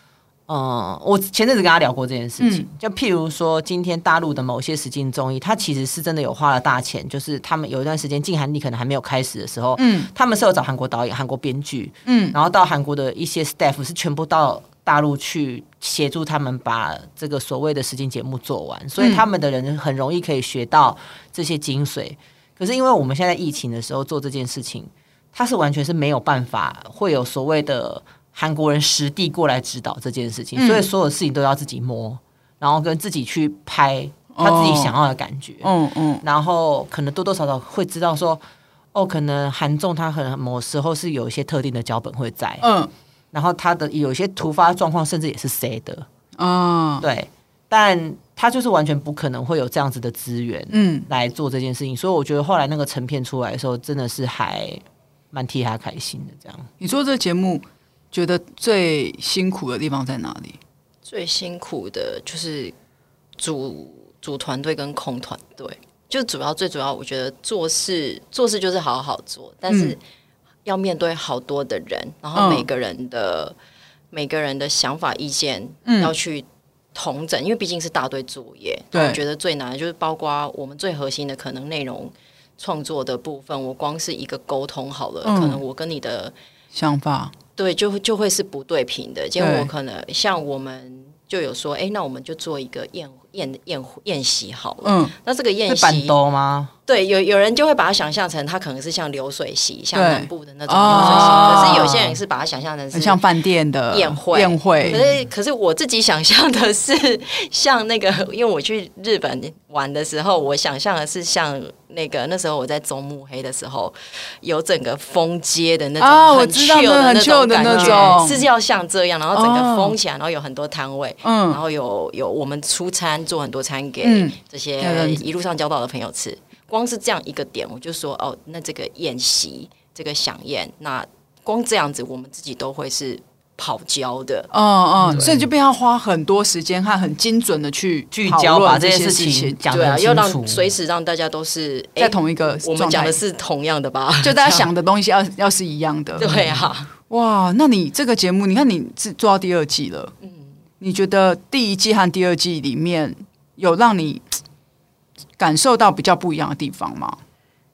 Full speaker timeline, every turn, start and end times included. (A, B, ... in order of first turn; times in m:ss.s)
0:00.5-0:38.4 A
0:02.4-0:02.7 B
0:09.8-0:10.1 B
0:12.0-0:12.4 B
0:19.0-0:19.2 B
0:30.6-0:30.9 B
0:34.3-0:34.9 B
0:35.6-0:36.2 B
0:38.9-0:42.6 A
0:42.6-0:42.9 B
0:43.3-0:46.0 A
0:46.4-0:47.0 B
0:47.0-0:56.7 A
0:50.7-0:51.1 B
0:56.8-1:00.6 B
1:01.0-1:02.7 C
1:03.4-1:10.0 C
1:09.7-1:09.9 B
1:10.6-1:13.6 C
1:12.3-1:12.6 B
1:14.1-1:26.3 C
1:15.8-1:16.1 B
1:18.9-1:19.2 B
1:25.2-1:25.6 B
1:26.7-1:27.3 B
1:27.6-1:36.1 C
1:29.4-1:29.7 B
1:34.8-1:35.1 B
1:35.7-1:36.7 A
1:36.9-1:43.2 C
1:39.9-1:42.0 B
1:40.9-1:42.1 A
1:42.9-1:45.0 B
1:43.9-2:14.5 C
1:56.0-1:58.4 B
1:57.8-1:58.2 A
1:59.3-2:00.0 B
2:01.2-2:01.6 B
2:04.0-2:05.2 B
2:14.5-2:19.6 B
2:15.0-2:15.4 A
2:18.1-2:20.7 A
2:19.7-2:24.7 C
2:22.0-2:23.2 B
2:24.2-2:26.3 B
2:26.2-2:26.9 C
2:26.2-2:26.7 A
2:27.1-2:30.1 B
2:30.2-2:30.5 C
2:30.8-2:34.2 B
2:35.4-2:37.2 B